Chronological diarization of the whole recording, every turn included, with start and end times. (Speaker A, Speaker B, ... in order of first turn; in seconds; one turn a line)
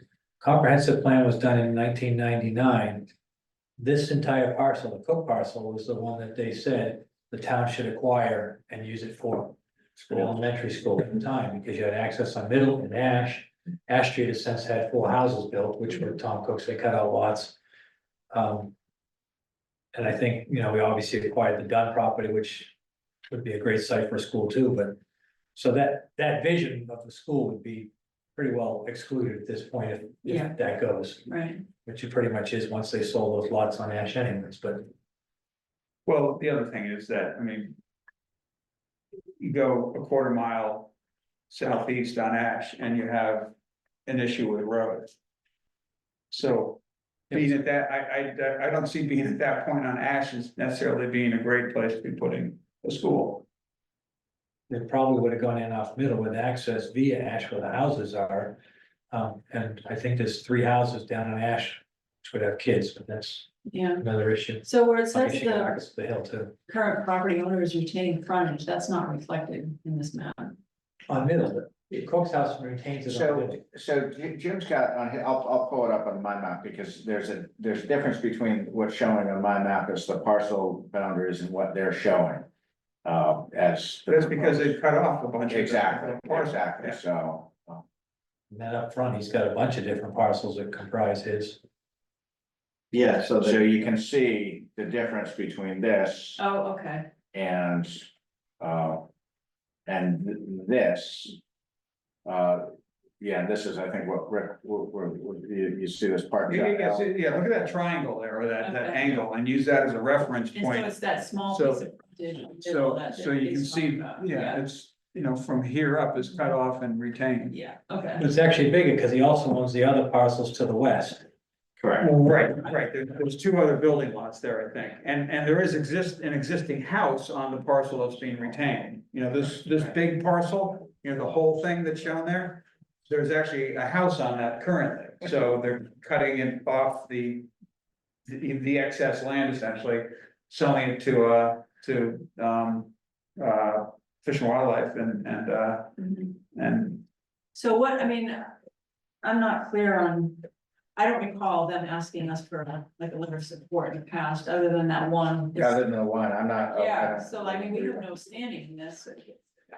Speaker A: 0.4-3.1
Speaker A: 3.8-9.6
Speaker B: 10.0-10.3
Speaker A: 10.1-17.6
Speaker A: 18.3-18.7
Speaker A: 19.9-22.7
Speaker A: 23.3-25.0
Speaker A: 25.6-34.9
Speaker C: 30.3-30.6
Speaker C: 31.3-31.6
Speaker B: 36.1-37.8
Speaker B: 39.4-40.9
Speaker B: 41.5-43.5
Speaker B: 44.1-45.1
Speaker B: 46.3-53.5
Speaker A: 47.3-47.6
Speaker A: 54.7-58.6
Speaker A: 59.1-66.5
Speaker C: 63.7-64.0
Speaker C: 64.6-65.8
Speaker C: 66.7-70.6
Speaker A: 71.1-73.6
Speaker D: 73.1-82.5
Speaker D: 83.0-84.8
Speaker B: 84.1-87.0
Speaker D: 85.5-87.8
Speaker A: 88.5-91.6
Speaker D: 92.9-96.4
Speaker C: 96.4-97.1
Speaker D: 97.3-99.1
Speaker D: 99.9-101.4
Speaker D: 102.2-107.5
Speaker B: 106.5-111.9
Speaker C: 108.6-109.2
Speaker C: 110.5-114.6
Speaker B: 112.6-117.6
Speaker C: 117.5-118.3
Speaker A: 118.2-121.3
Speaker D: 121.8-122.1
Speaker B: 122.0-137.5
Speaker B: 138.3-147.1
Speaker C: 146.0-146.4
Speaker C: 147.6-148.5
Speaker C: 149.2-155.8
Speaker D: 155.5-158.1
Speaker C: 156.7-159.4